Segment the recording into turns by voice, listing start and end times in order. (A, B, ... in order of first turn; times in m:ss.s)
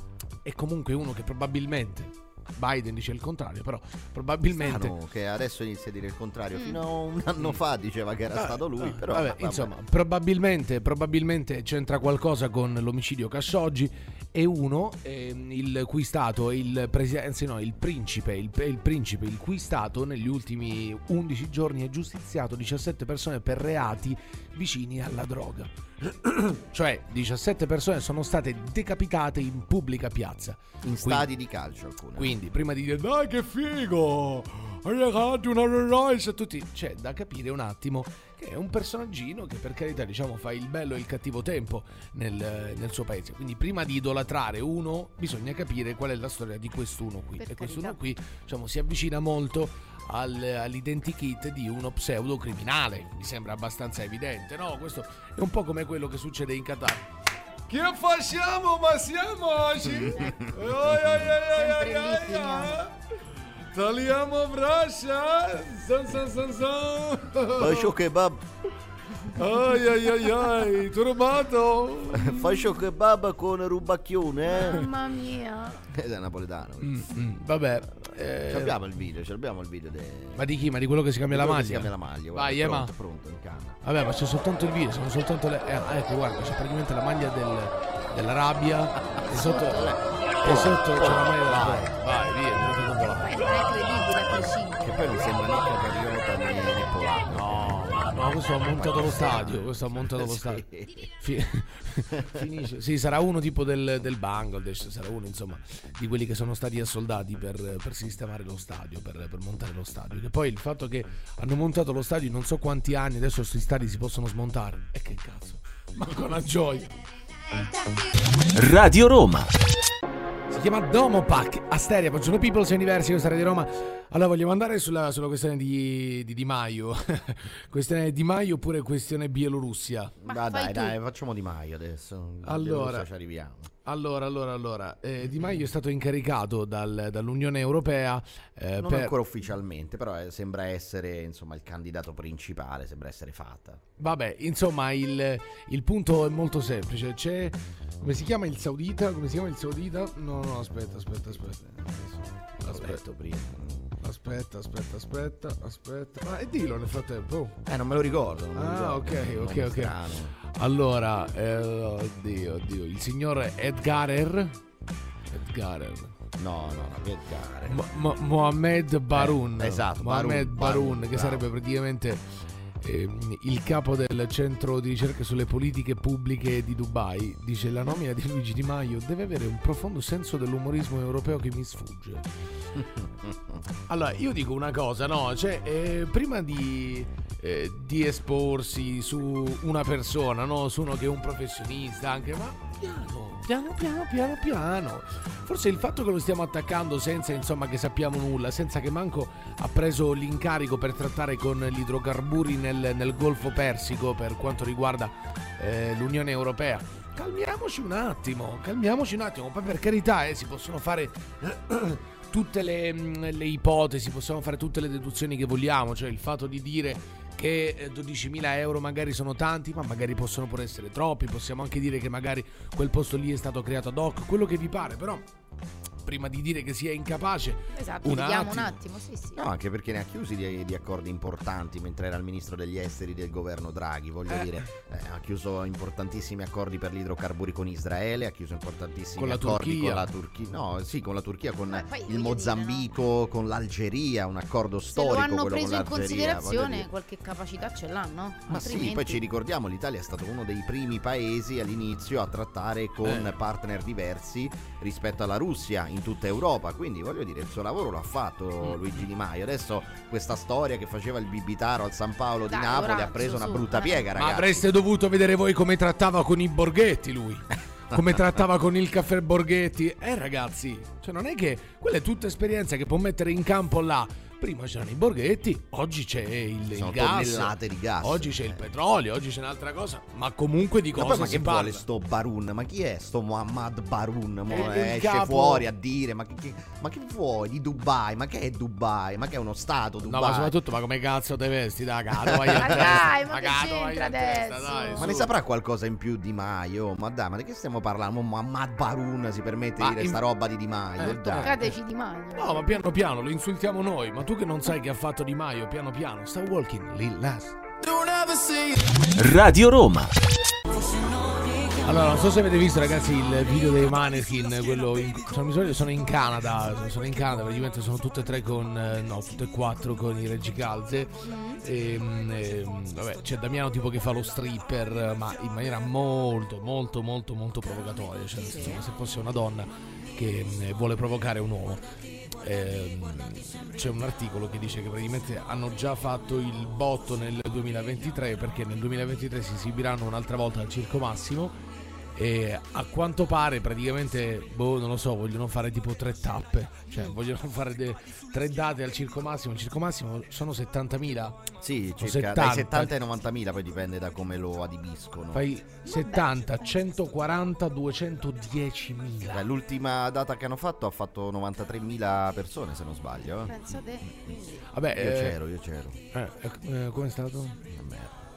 0:00.4-0:04.9 A
0:04.6-0:09.7 B
0:08.3-0:31.3 A
0:30.8-0:32.3 B
0:32.2-0:57.1 A
0:47.4-0:48.0 C
0:57.7-1:02.9 A
0:59.8-1:01.2 B
1:01.4-1:02.8 C
1:03.7-1:07.9 A
1:07.5-1:08.4 B
1:09.3-1:12.6 A
1:12.1-1:14.8 B
1:14.5-1:15.8 C
1:15.9-1:17.1 B
1:16.8-1:18.8 A
1:18.5-1:20.5 B
1:20.4-1:22.9 A
1:21.3-1:23.8 B
1:23.8-1:29.8 A
1:29.2-1:30.0 C
1:29.7-1:31.9 B
1:30.4-1:33.3 A
1:33.0-1:35.4 C
1:34.8-1:38.0 B
1:36.4-1:37.0 C
1:37.3-1:40.6 A
1:38.7-1:41.0 B
1:41.2-1:57.0 A
1:58.5-1:59.5 D
2:00.5-2:10.1 A
2:10.2-2:13.7 B
2:10.2-2:11.0 C
2:12.4-2:13.1 A
2:13.8-2:19.1 A
2:15.2-2:15.6 B
2:18.8-2:23.8 B
2:24.0-2:33.1 A
2:31.3-2:33.9 B
2:34.0-2:37.6 A
2:37.6-2:40.3 B
2:38.5-2:44.6 A
2:45.3-2:46.1 A
2:46.4-2:47.8 B
2:47.7-2:52.2 A
2:49.1-2:51.5 B
2:52.8-3:02.2 A
2:57.6-2:58.0 C
3:02.7-3:03.6 B
3:03.9-3:45.2 A
3:46.0-3:48.8 A
3:47.7-3:49.4 C
3:49.4-4:06.9 B
3:59.2-4:00.1 A
4:01.7-4:02.9 C
4:04.9-4:09.2 C
4:08.5-4:24.7 B
4:13.0-4:13.3 A
4:18.6-4:19.0 A
4:22.5-4:24.0 C
4:24.2-4:41.8 A
4:27.9-4:28.2 B
4:36.7-4:38.7 B
4:40.9-4:50.5 B
4:44.5-4:44.8 C
4:44.5-4:45.6 A
4:50.0-4:55.3 A
4:52.1-4:53.0 B
4:52.6-4:55.1 C
4:55.0-5:01.6 B
4:59.8-5:00.2 A
5:01.0-5:01.6 A
5:01.4-5:02.7 C
5:02.4-5:07.6 A
5:07.9-5:08.6 D
5:09.2-5:10.1 D
5:11.8-5:31.8 A
5:21.2-5:21.6 C
5:28.4-5:28.8 C
5:32.4-5:41.6 A
5:42.2-5:51.4 A
5:51.6-5:55.5 B
5:52.0-5:52.9 A
5:55.3-5:59.4 A
5:55.9-5:56.3 C
5:59.3-6:03.6 B
6:03.4-6:04.7 C
6:04.7-6:05.4 A
6:04.9-6:06.0 B
6:06.1-6:07.6 A
6:07.7-6:08.2 B